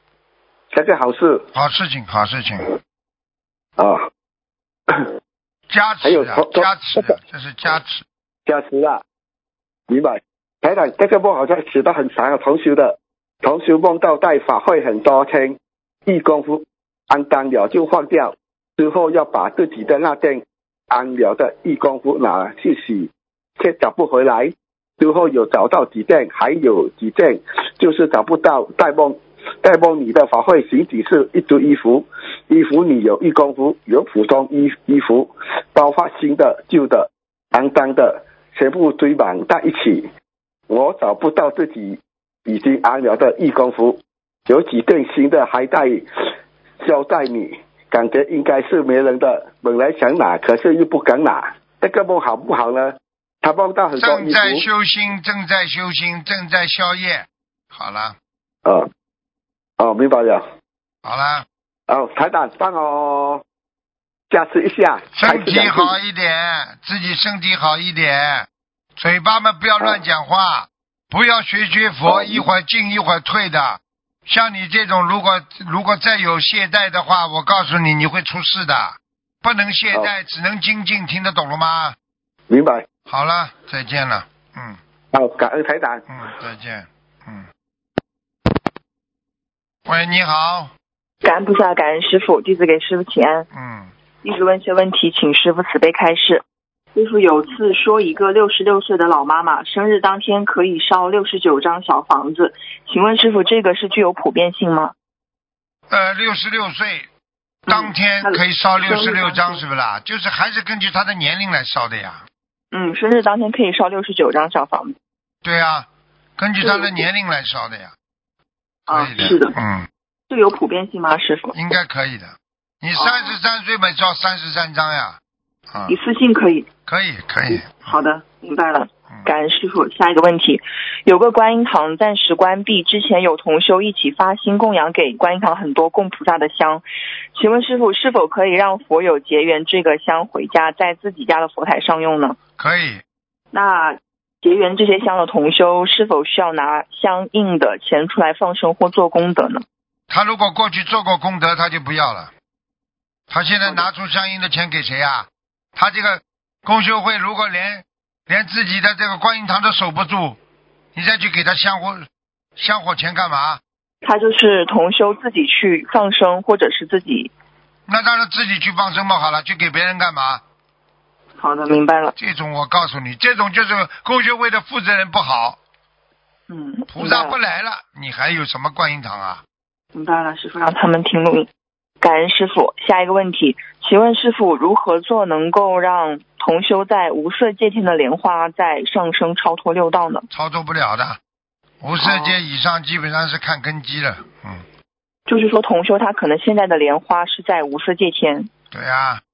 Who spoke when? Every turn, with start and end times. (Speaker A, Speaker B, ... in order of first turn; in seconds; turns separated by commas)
Speaker A: 0.7-1.4, Speaker B: 1.5-2.7, Speaker B: 5.7-8.0, Speaker A: 6.0-6.7, Speaker A: 8.4-9.0, Speaker A: 9.9-40.1, Speaker A: 40.7-46.0, Speaker A: 46.8-54.6, Speaker B: 54.0-58.1, Speaker A: 59.8-60.4, Speaker B: 61.0-61.5, Speaker A: 61.9-63.4, Speaker A: 64.3-65.9, Speaker B: 65.1-82.0, Speaker A: 72.1-72.4, Speaker A: 82.5-82.8, Speaker B: 83.1-84.8, Speaker A: 85.1-86.0, Speaker B: 86.1-87.5, Speaker B: 89.8-90.7, Speaker C: 91.2-93.5, Speaker B: 93.5-93.9, Speaker C: 94.2-96.4, Speaker C: 96.9-104.9, Speaker B: 105.9-107.1, Speaker C: 107.7-109.6, Speaker B: 107.7-112.3, Speaker C: 112.7-114.9, Speaker B: 115.4-117.9, Speaker C: 116.6-117.0, Speaker C: 118.9-119.5, Speaker B: 118.9-119.9, Speaker C: 120.3-121.5, Speaker B: 121.5-125.2, Speaker C: 123.0-123.3, Speaker B: 125.7-126.0, Speaker C: 125.9-126.7, Speaker B: 126.9-128.0, Speaker C: 127.5-142.4, Speaker B: 142.6-143.0, Speaker C: 143.5-149.6, Speaker B: 150.1-152.3, Speaker B: 153.3-160.4, Speaker B: 160.9-163.6, Speaker C: 164.0-167.3, Speaker B: 167.9-170.4, Speaker C: 171.4-172.1, Speaker B: 172.2-175.6, Speaker C: 176.5-177.3, Speaker B: 176.9-179.4, Speaker C: 179.9-181.5, Speaker C: 182.0-190.2, Speaker B: 190.3-191.2, Speaker B: 191.8-194.6, Speaker C: 192.0-192.4, Speaker C: 195.3-198.5, Speaker B: 198.7-199.2